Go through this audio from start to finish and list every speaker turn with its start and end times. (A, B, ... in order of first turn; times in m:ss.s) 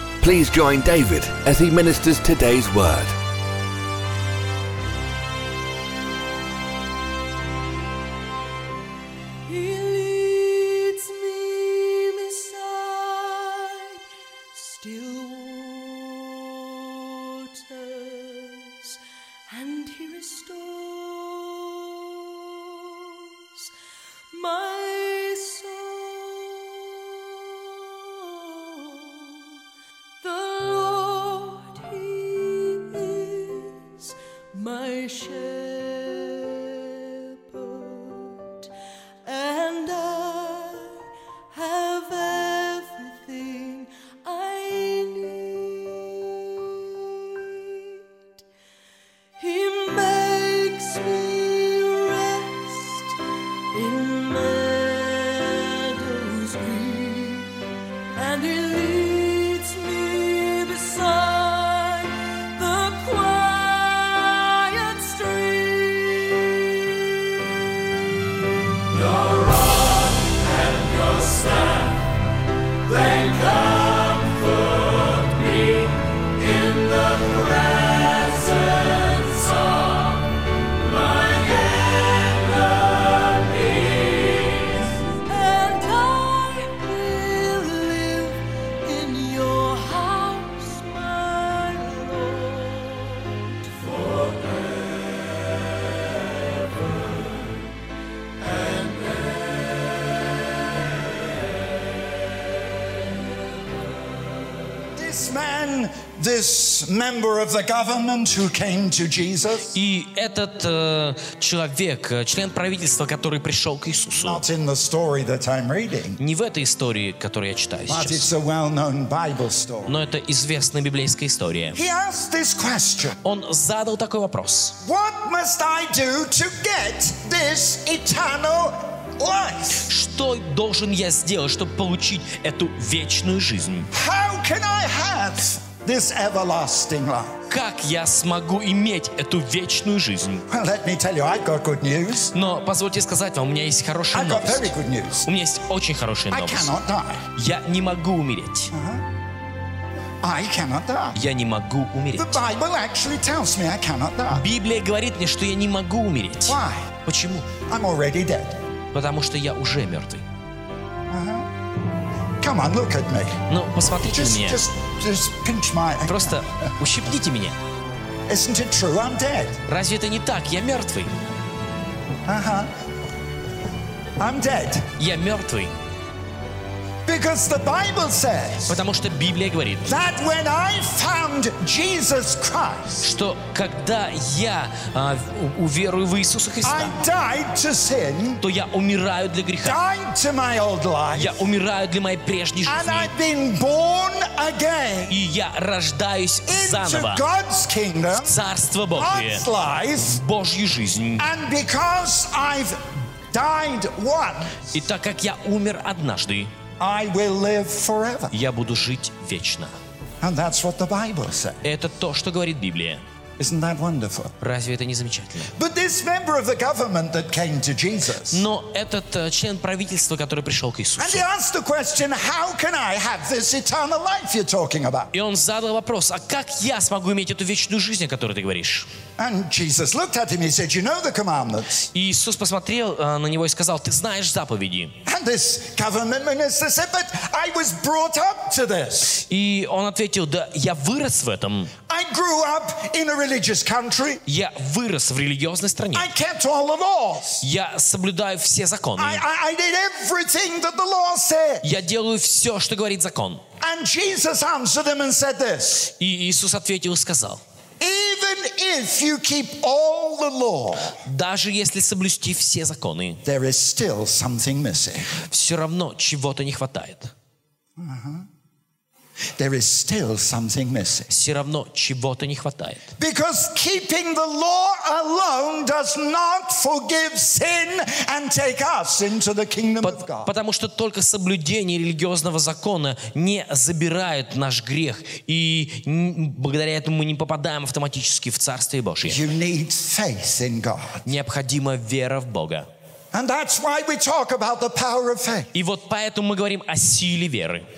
0:00.2-0:03.1 A
0:09.5-0:13.6 B
0:14.9-0:16.4 B
0:18.0-0:18.7 B
0:19.5-0:21.6 B
0:24.4-0:26.8 B
0:30.2-0:33.9 B
0:34.6-0:38.5 B
0:39.3-0:41.0 B
0:41.6-0:46.8 B
0:49.4-0:53.1 B
0:53.8-1:06.6 B
1:25.2-1:33.3 B
1:44.9-1:49.7 C
1:49.7-1:54.4 D
1:54.1-1:56.2 C
1:56.2-1:58.3 D
1:57.9-2:00.0 C
1:59.8-2:01.8 D
2:01.7-2:03.2 C
2:03.2-2:04.8 D
2:04.8-2:09.9 C
2:09.8-2:13.9 D
2:13.9-2:17.3 C
2:17.5-2:20.4 D
2:20.5-2:22.3 C
2:22.3-2:24.7 D
2:24.1-2:25.3 C
2:25.2-2:26.7 D
2:26.3-2:27.2 C
2:27.3-2:28.7 D
2:28.7-2:29.0 C
2:30.2-2:31.2 C
2:31.1-2:32.4 D
2:32.2-2:34.4 C
2:34.3-2:37.5 D
2:36.4-2:36.9 C
2:37.7-2:38.6 C
2:38.9-2:40.2 D
2:41.1-2:41.5 C
2:42.4-2:43.4 C
2:43.5-2:44.6 D
2:44.0-2:46.6 C
2:46.0-2:47.6 D
2:48.3-2:49.6 C
2:49.7-2:51.1 D
2:52.2-2:52.7 C
2:54.2-2:54.9 C
2:55.0-2:55.7 D
2:57.0-2:58.8 C
2:58.6-3:00.0 D
2:59.9-3:03.1 C
3:03.0-3:07.0 D
3:06.6-3:08.4 C
3:08.4-3:09.8 D
3:09.6-3:11.4 C
3:11.1-3:13.1 D
3:12.6-3:15.2 C
3:15.1-3:17.2 D
3:16.5-3:18.4 C
3:18.2-3:19.4 D
3:18.9-3:20.2 C
3:20.0-3:21.3 D
3:21.2-3:24.5 C
3:24.7-3:26.5 D
3:26.8-3:28.3 C
3:28.3-3:29.7 D
3:30.2-3:31.6 C
3:31.6-3:33.0 D
3:33.4-3:34.3 C
3:34.4-3:35.5 D
3:35.5-3:38.5 C
3:38.3-3:41.2 D
3:41.0-3:45.1 C
3:45.1-3:48.9 D
3:49.2-3:51.8 C
3:51.9-3:54.9 D
3:55.0-3:59.2 C
3:59.2-4:01.7 D
4:01.9-4:04.2 C
4:04.2-4:06.1 D
4:05.9-4:07.4 C
4:07.4-4:09.2 D
4:09.0-4:11.6 C
4:11.6-4:13.4 D
4:13.6-4:15.9 C
4:15.9-4:17.4 D
4:17.8-4:21.0 C
4:21.0-4:23.2 D
4:23.2-4:25.1 C
4:25.3-4:27.1 D
4:27.8-4:28.2 C
4:29.4-4:31.1 C
4:31.1-4:32.8 D
4:33.0-4:40.3 C
4:39.8-4:49.2 D
4:49.0-4:51.1 C
4:51.0-4:52.7 D
4:53.1-4:55.5 C
4:55.5-4:57.6 D